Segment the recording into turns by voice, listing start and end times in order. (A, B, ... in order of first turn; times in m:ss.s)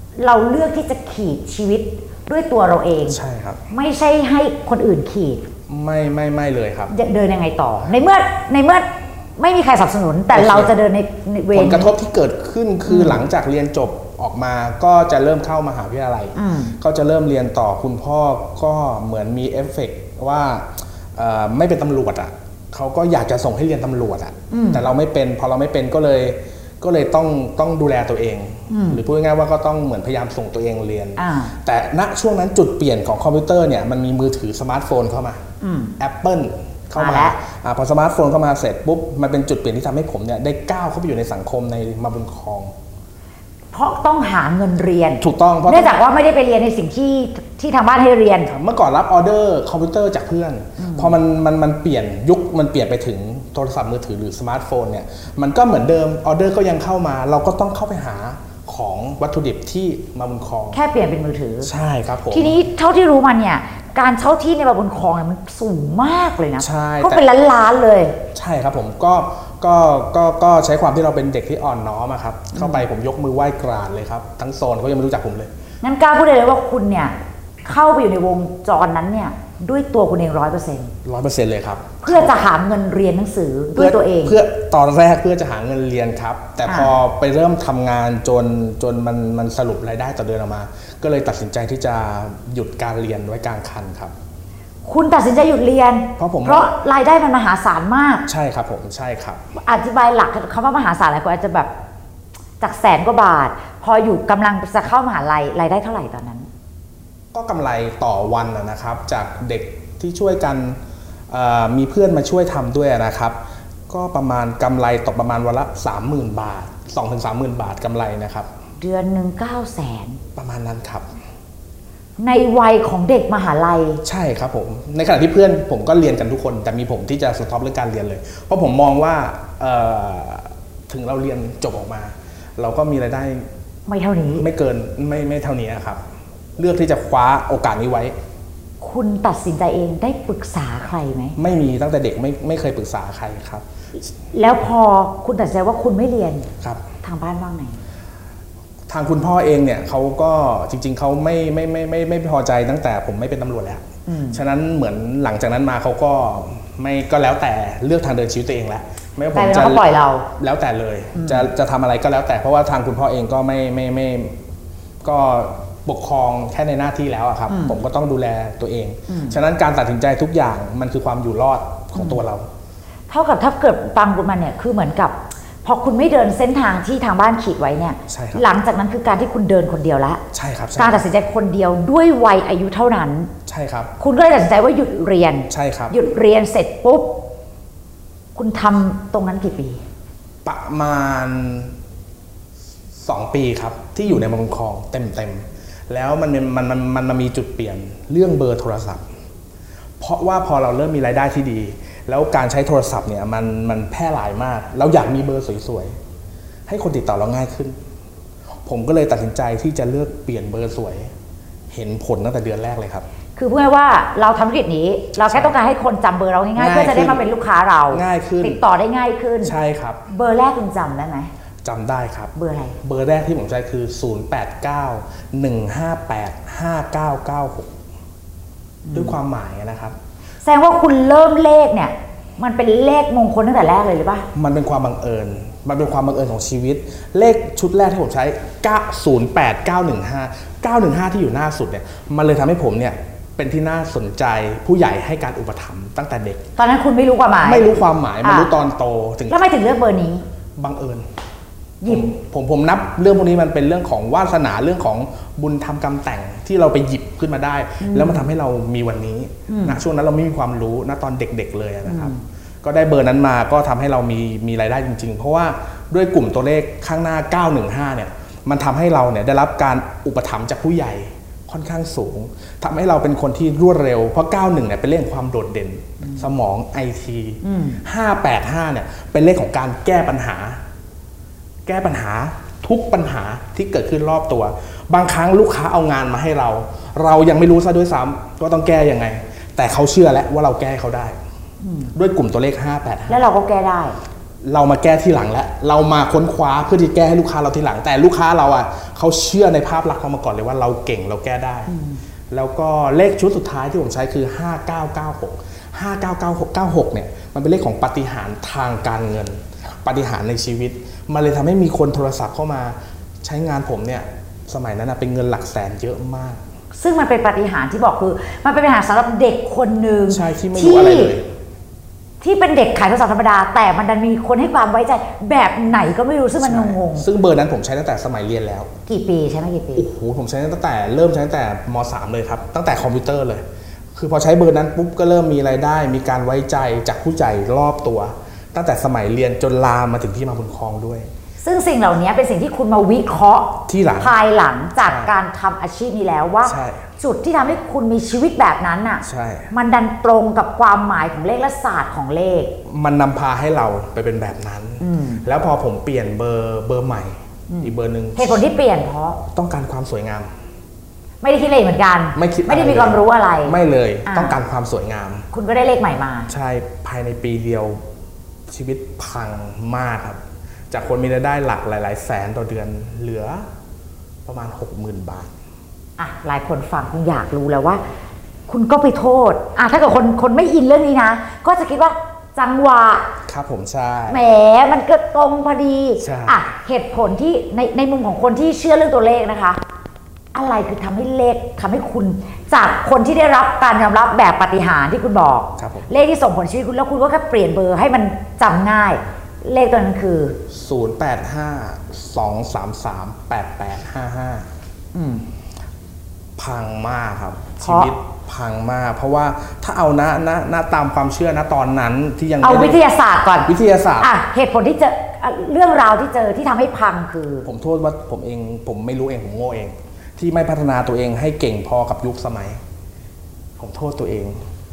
0:00.2-0:03.2 A
0:03.1-0:03.6 B
0:03.7-0:05.4 A
0:05.7-0:06.9 B
0:06.9-0:08.9 A
0:09.4-0:11.9 A
0:10.3-0:10.7 B
0:11.5-0:35.4 B
0:12.9-0:13.2 A
0:16.4-0:16.7 A
0:24.5-0:24.8 A
0:28.7-0:29.0 A
0:31.2-0:31.6 A
0:35.6-0:35.9 A
0:36.0-0:42.7 B
0:37.0-0:37.4 A
0:43.7-0:48.5 A
0:45.2-0:46.0 B
0:48.5-1:00.8 B
0:50.8-0:51.1 A
1:00.7-1:01.7 A
1:01.6-1:02.6 B
1:02.3-1:08.2 A
1:06.6-1:07.3 B
1:08.3-1:15.5 B
1:12.6-1:12.9 A
1:15.8-1:20.9 A
1:21.0-1:22.4 B
1:22.0-1:24.4 A
1:23.8-1:34.1 B
1:26.6-1:26.9 A
1:34.8-1:38.2 A
1:36.2-1:36.7 B
1:38.3-1:39.4 B
1:39.6-1:41.7 A
1:42.6-1:46.5 A
1:47.3-1:50.8 B
1:51.3-1:58.5 B
1:58.8-2:00.2 A
2:00.4-2:01.1 B
2:02.2-2:04.0 A
2:04.0-2:13.5 B
2:13.9-2:14.5 A
2:14.4-2:16.0 B
2:16.6-2:18.1 B
2:18.8-2:21.4 A
2:21.4-2:23.6 B
2:24.3-2:26.5 A
2:27.0-2:27.8 A
2:28.9-2:44.4 B
2:34.1-2:34.4 A
2:39.3-2:40.3 A
2:41.1-2:41.5 A
2:45.0-2:52.5 B
2:47.5-2:47.8 A
2:49.1-2:49.4 A
2:52.0-2:52.2 A
2:53.1-3:00.2 A
2:58.1-2:58.4 B
3:00.3-3:01.0 B
3:00.8-3:03.3 A
3:03.5-3:03.9 B
3:04.0-3:07.2 A
3:05.5-3:06.0 B
3:08.4-3:09.8 A
3:10.4-3:11.8 B
3:13.0-3:19.0 B
3:20.0-3:25.9 B
3:26.7-3:27.8 B
3:28.6-3:31.1 B
3:31.7-3:33.0 B
3:33.4-3:39.6 A
3:35.2-3:35.6 B
3:36.6-3:37.2 B
3:37.9-3:38.6 B
3:39.4-3:40.0 B
3:40.1-3:41.3 A
3:41.6-3:47.7 B
3:42.4-3:42.8 A
3:48.8-3:49.2 A
3:48.9-3:50.0 B
3:50.4-3:54.3 A
3:54.3-4:06.4 B
4:06.6-4:07.7 A
4:07.4-4:09.4 B
4:08.2-4:08.5 A
4:09.3-4:10.2 A
4:10.6-4:11.1 B
4:11.8-4:12.1 A
4:11.9-4:40.6 B
4:17.8-4:18.3 A
4:19.5-4:19.8 A
4:21.9-4:22.2 A
4:37.4-4:37.8 A
4:41.7-4:51.2 B
4:51.6-4:51.9 A
4:51.9-4:53.2 B
4:53.1-4:54.0 A
4:54.4-5:01.7 B
5:01.7-5:02.0 A
5:02.3-5:16.4 B
5:16.7-5:21.2 A
5:20.1-5:21.3 B
5:22.2-5:27.1 A
5:26.4-5:28.7 B
5:28.9-5:29.9 A
5:29.8-5:33.4 B
5:34.0-5:41.1 B
5:41.4-5:52.5 A
5:43.7-5:44.2 B
5:44.8-5:45.1 B
5:46.4-5:46.9 B
5:49.0-5:49.5 B
5:52.7-5:58.4 B
5:54.8-5:55.2 A
5:57.5-5:59.2 A
5:59.2-6:00.3 B
6:01.2-6:04.4 A
6:02.2-6:05.2 B
6:05.3-6:06.3 A
6:06.3-6:07.8 B
6:08.5-6:13.5 B
6:14.2-6:15.3 B
6:16.0-6:17.8 A
6:18.5-6:23.0 A
6:23.3-6:24.2 B
6:24.1-6:29.6 A
6:26.0-6:26.4 B
6:30.3-6:40.4 A
6:35.6-6:35.9 B
6:40.5-6:44.5 B
6:44.9-6:45.2 A
6:46.4-6:52.8 B
6:47.6-6:47.9 A
6:52.4-6:57.5 A
6:53.5-6:54.1 B
6:57.4-7:02.6 B
7:03.6-7:04.4 B